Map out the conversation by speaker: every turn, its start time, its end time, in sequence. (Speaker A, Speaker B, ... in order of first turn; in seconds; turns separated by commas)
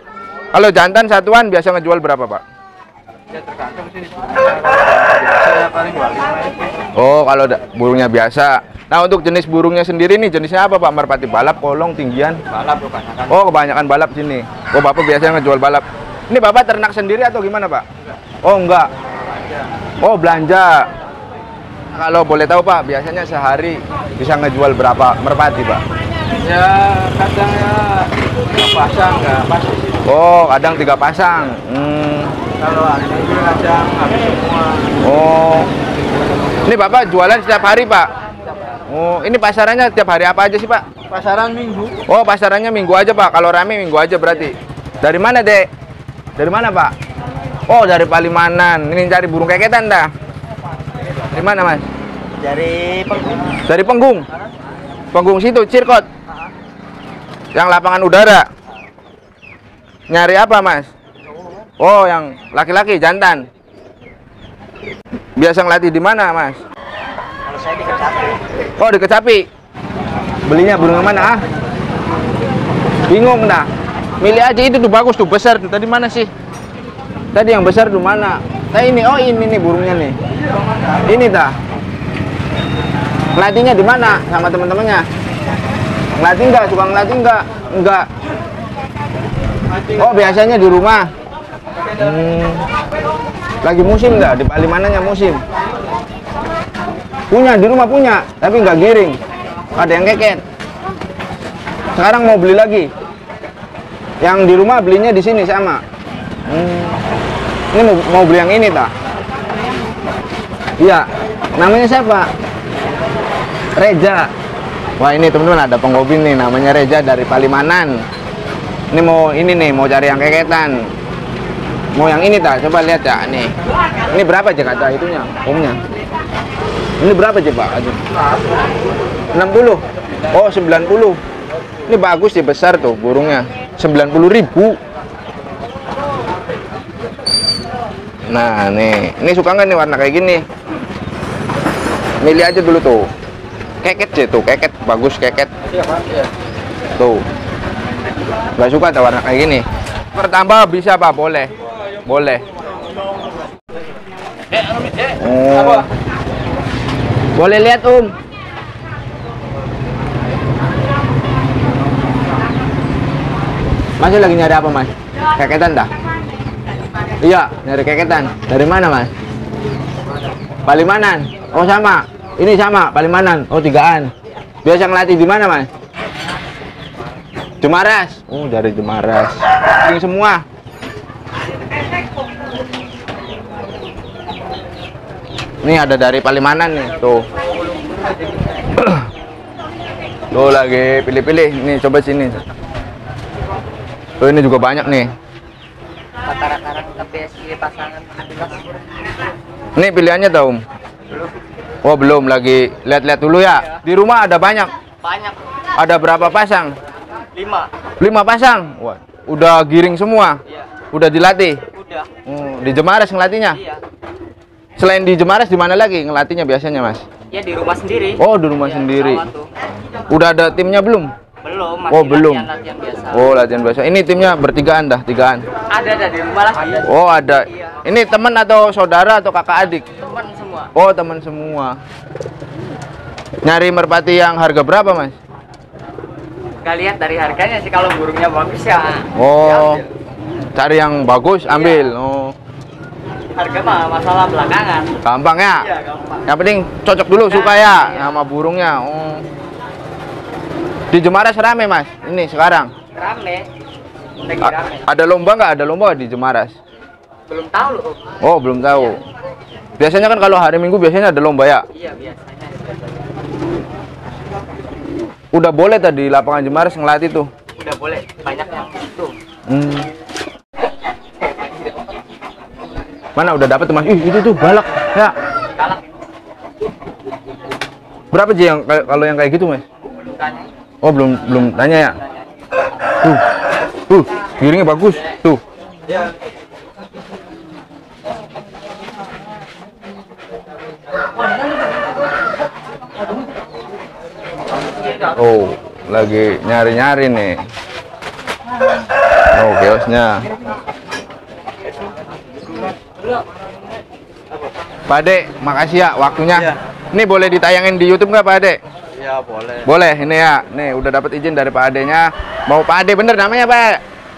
Speaker A: 0.5-2.4, Speaker B: 3.5-4.2, Speaker B: 5.2-6.5, Speaker A: 7.0-12.4, Speaker C: 12.5-13.3, Speaker A: 13.3-17.9, Speaker A: 18.4-18.9, Speaker A: 20.0-20.9, Speaker A: 21.9-25.8, Speaker B: 26.5-29.9, Speaker A: 30.0-32.3, Speaker B: 32.7-34.6, Speaker A: 34.9-35.7, Speaker A: 36.6-38.1, Speaker A: 38.9-45.7, Speaker A: 46.4-46.9, Speaker A: 47.7-50.1, Speaker A: 51.3-51.9, Speaker C: 52.4-53.4, Speaker A: 53.7-54.3, Speaker A: 55.1-56.1, Speaker A: 57.5-58.5, Speaker A: 60.1-60.9, Speaker A: 61.8-63.5, Speaker A: 65.4-66.6, Speaker C: 67.5-68.1, Speaker A: 68.8-69.5, Speaker A: 70.5-71.4, Speaker A: 73.1-73.7, Speaker A: 74.2-76.3, Speaker A: 77.3-80.2, Speaker A: 81.0-81.5, Speaker A: 83.3-85.1, Speaker A: 86.2-88.1, Speaker A: 89.9-91.1, Speaker A: 92.0-92.7, Speaker A: 93.6-95.4, Speaker A: 97.3-99.2, Speaker A: 99.8-100.4, Speaker A: 102.0-102.9, Speaker A: 104.2-105.8, Speaker A: 106.5-107.0, Speaker A: 107.7-108.9, Speaker A: 110.8-112.3, Speaker A: 113.8-114.3, Speaker A: 115.0-118.0, Speaker A: 118.9-120.9, Speaker A: 121.9-123.5, Speaker A: 124.1-125.8, Speaker A: 127.0-128.0, Speaker A: 129.3-131.2, Speaker A: 131.9-134.8, Speaker A: 138.3-140.4, Speaker A: 142.2-143.1, Speaker A: 143.8-145.5, Speaker A: 147.0-147.2, Speaker A: 148.6-151.5, Speaker A: 152.1-152.4, Speaker A: 155.0-155.9, Speaker A: 157.4-158.1, Speaker A: 164.0-165.9, Speaker A: 167.2-169.1, Speaker A: 170.7-174.1, Speaker A: 174.7-175.7, Speaker A: 177.6-180.4, Speaker A: 185.6-187.2, Speaker A: 188.8-189.0, Speaker A: 190.3-192.4, Speaker A: 194.2-195.1, Speaker C: 196.2-198.8, Speaker A: 199.8-200.6, Speaker A: 201.8-204.7, Speaker C: 205.0-205.4, Speaker A: 205.8-206.8, Speaker C: 207.3-207.7, Speaker A: 208.0-210.4, Speaker A: 210.9-211.6, Speaker C: 211.7-212.1, Speaker A: 212.2-213.6, Speaker C: 213.5-213.8, Speaker A: 214.8-217.1, Speaker C: 217.3-219.5, Speaker A: 218.2-219.3, Speaker A: 220.1-221.1, Speaker C: 221.4-223.4, Speaker A: 221.9-222.5, Speaker A: 223.1-225.4, Speaker C: 225.7-226.9, Speaker A: 226.8-229.9, Speaker C: 229.8-230.7, Speaker A: 230.8-231.8, Speaker A: 233.4-235.2, Speaker C: 236.6-239.8, Speaker A: 239.2-239.8, Speaker A: 240.6-242.3, Speaker C: 243.3-244.9, Speaker A: 245.0-245.7, Speaker C: 245.7-246.2, Speaker A: 246.3-249.3, Speaker C: 247.3-248.2, Speaker A: 250.9-252.7, Speaker C: 252.9-253.5, Speaker C: 254.2-254.9, Speaker A: 254.4-256.6, Speaker C: 257.3-258.2, Speaker A: 258.2-259.0, Speaker A: 259.8-261.7, Speaker C: 261.7-263.0, Speaker A: 265.3-267.3, Speaker C: 267.6-269.1, Speaker A: 269.5-269.9, Speaker A: 273.2-275.1, Speaker C: 275.6-275.8, Speaker A: 278.1-279.6, Speaker C: 279.9-280.5, Speaker A: 280.8-282.0, Speaker A: 283.0-283.3, Speaker A: 283.9-285.4, Speaker A: 295.1-297.4, Speaker A: 299.3-300.3, Speaker A: 304.9-308.6, Speaker B: 309.0-309.6, Speaker A: 309.6-313.8